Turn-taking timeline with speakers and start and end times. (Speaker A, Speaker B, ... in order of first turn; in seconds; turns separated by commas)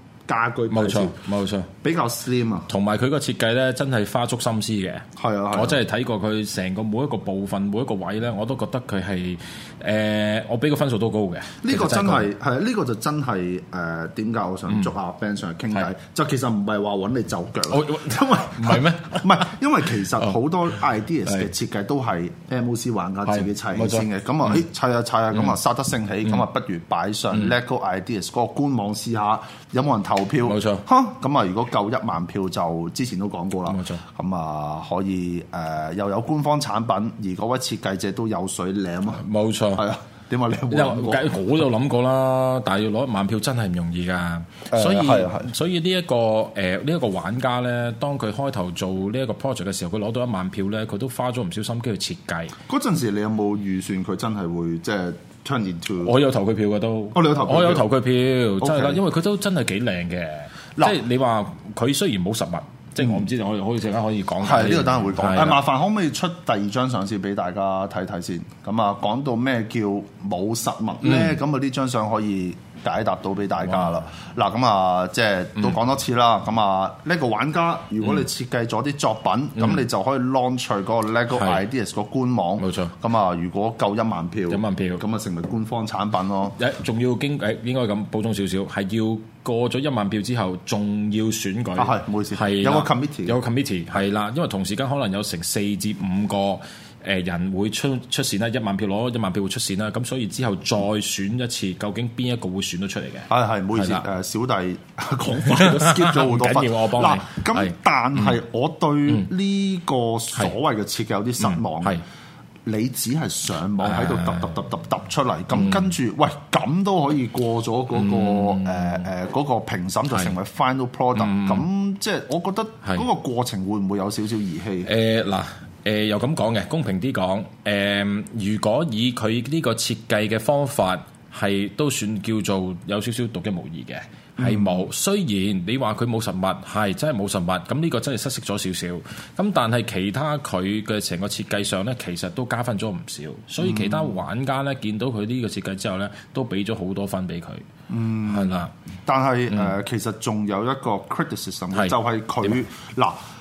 Speaker A: 0.3-1.2, Speaker B: 0.7-1.7, Speaker A: 1.8-2.7, Speaker B: 2.7-12.3, Speaker A: 5.2-5.8, Speaker A: 11.6-41.4, Speaker B: 17.7-19.5, Speaker B: 23.2-24.6, Speaker B: 30.4-30.8, Speaker B: 33.6-34.0, Speaker B: 39.1-39.9, Speaker B: 40.7-52.5, Speaker A: 44.7-45.5, Speaker A: 52.7-56.1, Speaker B: 56.0-65.6, Speaker A: 57.1-57.9, Speaker A: 58.6-59.0, Speaker A: 63.0-63.2, Speaker A: 64.4-86.6, Speaker B: 71.0-71.4, Speaker B: 79.6-79.8, Speaker B: 82.6-82.9, Speaker B: 84.5-85.0, Speaker B: 86.6-104.0, Speaker A: 91.8-93.4, Speaker A: 103.3-112.0, Speaker B: 105.4-107.7, Speaker B: 111.4-112.0, Speaker A: 112.7-124.9, Speaker B: 113.8-114.5, Speaker B: 115.5-115.8, Speaker B: 117.9-119.0, Speaker B: 121.2-121.7, Speaker B: 124.8-147.6, Speaker A: 134.4-134.8, Speaker A: 143.6-144.1, Speaker A: 147.9-153.2, Speaker B: 148.2-148.7